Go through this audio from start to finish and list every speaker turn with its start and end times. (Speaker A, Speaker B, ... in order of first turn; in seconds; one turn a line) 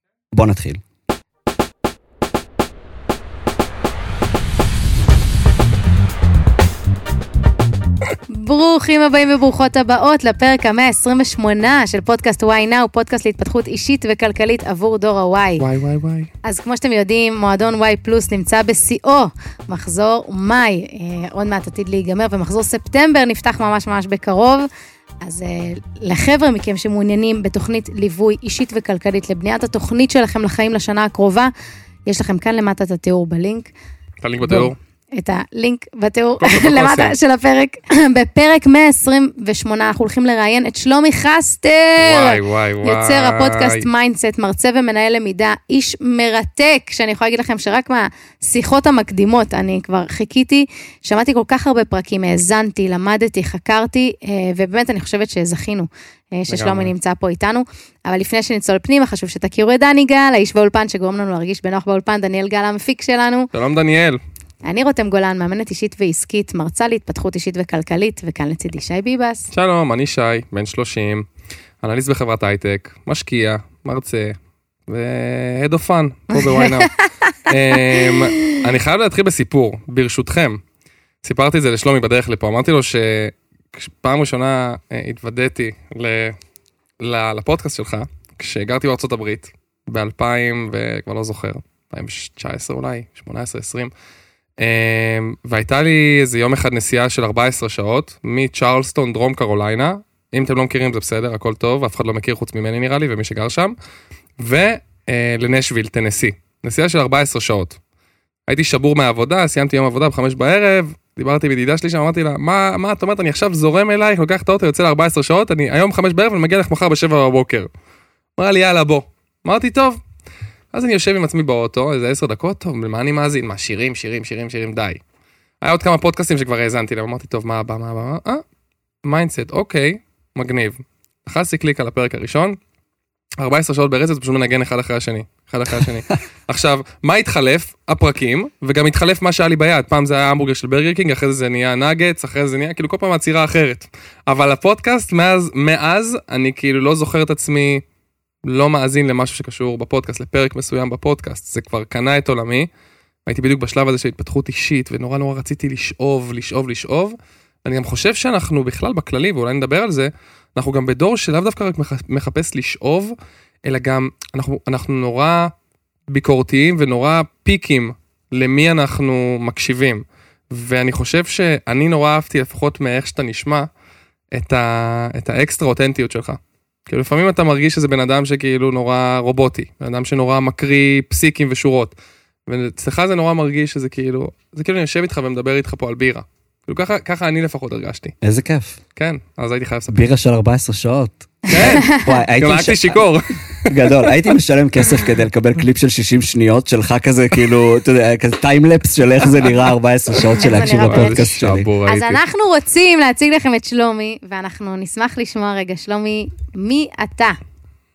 Speaker A: 0.3-0.8
Speaker B: 8.3-15.6
Speaker C: 15.6-16.3
Speaker B: 16.4-24.7
Speaker B: 25.2-31.5
Speaker B: 32.1-33.7
Speaker C: 34.2-34.8
Speaker B: 34.4-63.5
Speaker C: 36.4-37.1
Speaker C: 42.0-43.9
Speaker C: 56.5-56.9
Speaker C: 63.5-64.2
Speaker B: 64.6-69.5
Speaker C: 69.5-71.3
Speaker C: 71.8-74.3
Speaker C: 74.9-76.9
Speaker B: 76.3-76.9
Speaker C: 77.5-80.6
Speaker B: 78.0-78.6
Speaker C: 81.2-86.3
Speaker C: 87.0-93.9
Speaker C: 94.6-103.7
Speaker C: 104.4-107.8
Speaker C: 108.5-117.7
Speaker C: 118.4-120.0
Speaker C: 120.7-125.0
Speaker C: 125.6-128.4
Speaker C: 129.0-132.6
Speaker C: 133.4-147.8
Speaker C: 148.4-152.7
Speaker C: 153.2-165.5
Speaker C: 166.1-173.7
Speaker C: 174.3-181.9
Speaker C: 182.5-188.1
Speaker A: 188.2-188.8
Speaker C: 188.9-190.0
Speaker A: 189.9-193.0
Speaker C: 191.5-194.1
Speaker A: 193.7-201.7
Speaker B: 200.4-201.2
Speaker C: 200.4-202.2
Speaker B: 201.8-207.4